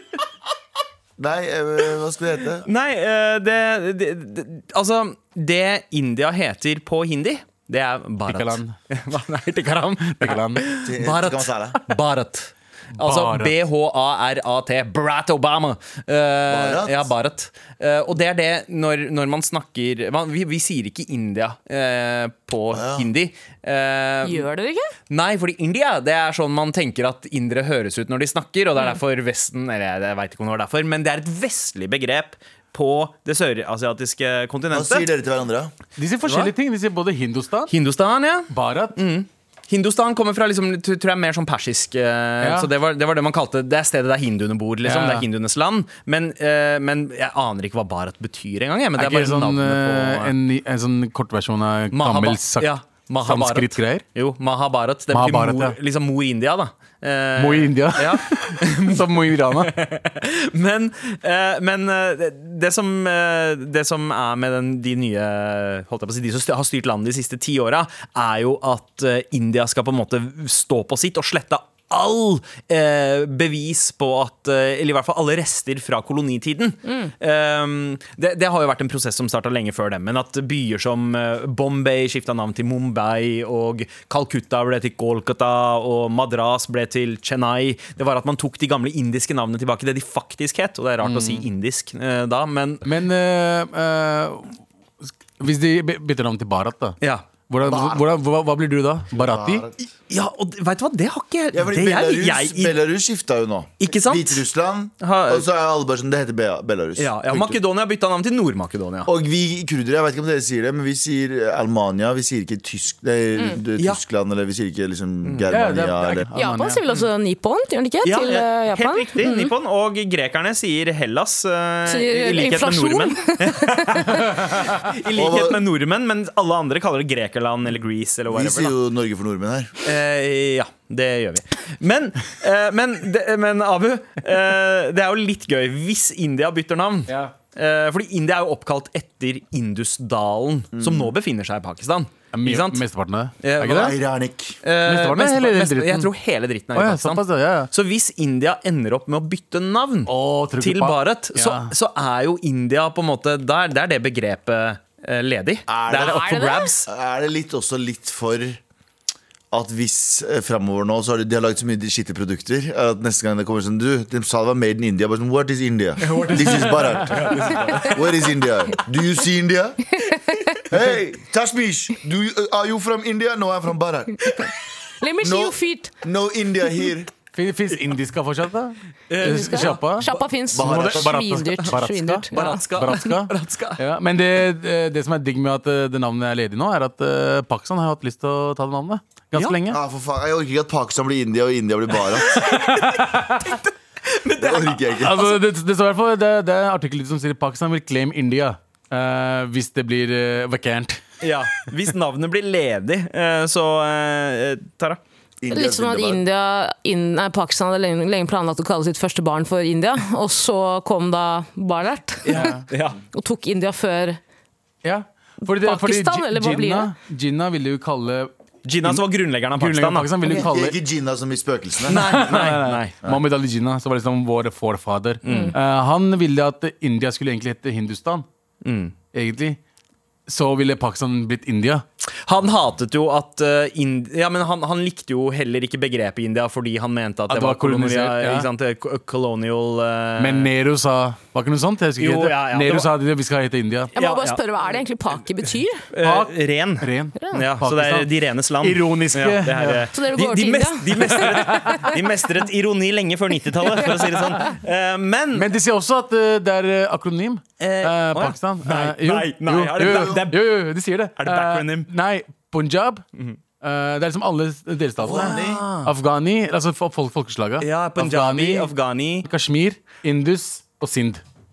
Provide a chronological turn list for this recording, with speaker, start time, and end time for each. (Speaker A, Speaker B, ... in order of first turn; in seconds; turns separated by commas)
Speaker A: 1.2-2.7, Speaker B: 2.6-24.5, Speaker C: 8.3-8.8, Speaker C: 10.2-10.7, Speaker A: 10.8-11.8, Speaker C: 13.0-13.5, Speaker A: 16.5-17.1, Speaker A: 22.7-23.1, Speaker D: 24.2-24.9, Speaker B: 25.1-35.1, Speaker A: 34.7-35.7, Speaker C: 36.0-37.7, Speaker B: 36.3-36.5, Speaker B: 37.7-50.3, Speaker C: 38.5-39.0, Speaker C: 42.4-42.7, Speaker C: 44.8-45.3, Speaker C: 49.0-54.0, Speaker B: 51.9-92.8, Speaker C: 55.1-55.8, Speaker C: 57.4-59.8, Speaker D: 76.8-77.1, Speaker C: 91.0-91.5, Speaker C: 92.8-97.0, Speaker B: 97.0-97.3, Speaker C: 97.5-99.7, Speaker A: 97.6-98.0, Speaker A: 99.2-99.8, Speaker B: 100.1-102.8, Speaker A: 101.5-107.6, Speaker B: 103.8-104.4, Speaker B: 105.0-105.5, Speaker B: 107.0-109.1, Speaker A: 109.1-116.3, Speaker C: 115.5-116.8, Speaker D: 116.3-119.5, Speaker B: 118.0-128.8, Speaker D: 121.9-124.2, Speaker A: 125.1-125.6, Speaker A: 128.3-129.7, Speaker B: 129.8-142.8, Speaker C: 137.1-137.3, Speaker A: 140.8-141.1, Speaker C: 142.3-143.9, Speaker B: 143.4-144.0, Speaker A: 143.7-144.6, Speaker B: 144.6-156.9, Speaker C: 144.8-146.1, Speaker C: 146.7-147.7, Speaker C: 150.1-151.7, Speaker A: 155.7-156.3, Speaker D: 156.0-156.7, Speaker A: 156.9-158.6, Speaker A: 159.5-169.9, Speaker B: 166.1-167.9, Speaker C: 166.2-167.9, Speaker D: 170.1-170.4, Speaker A: 170.7-174.4, Speaker D: 175.0-175.9, Speaker A: 175.2-177.1, Speaker C: 177.3-189.8, Speaker B: 179.1-180.1, Speaker D: 179.2-183.1, Speaker A: 180.5-181.1, Speaker B: 182.3-183.8, Speaker A: 189.7-192.4, Speaker B: 192.3-194.9, Speaker C: 192.6-193.4, Speaker A: 194.4-195.3, Speaker C: 195.0-201.0, Speaker B: 201.2-205.0, Speaker A: 205.4-206.2, Speaker D: 205.5-212.5, Speaker B: 212.2-213.0, Speaker C: 212.3-212.7, Speaker D: 213.1-214.2, Speaker C: 214.8-218.3, Speaker D: 215.4-216.9, Speaker B: 218.7-220.4, Speaker C: 219.5-220.8, Speaker A: 220.3-222.5, Speaker B: 221.9-223.0, Speaker C: 221.9-228.3, Speaker B: 225.2-225.6, Speaker D: 225.3-225.5, Speaker B: 228.6-228.9, Speaker C: 229.1-229.6, Speaker C: 230.3-231.8, Speaker B: 232.0-240.5, Speaker C: 237.3-238.5, Speaker C: 240.2-243.9, Speaker B: 242.0-242.9, Speaker D: 243.9-245.9, Speaker B: 244.0-244.4, Speaker B: 245.9-255.5, Speaker C: 246.0-249.9, Speaker D: 249.9-251.9, Speaker C: 251.1-251.8, Speaker C: 255.3-263.0, Speaker B: 257.6-260.6, Speaker B: 261.2-261.9, Speaker C: 263.6-268.7, Speaker A: 265.0-265.6, Speaker B: 265.0-265.9, Speaker B: 267.6-269.3, Speaker C: 269.2-271.2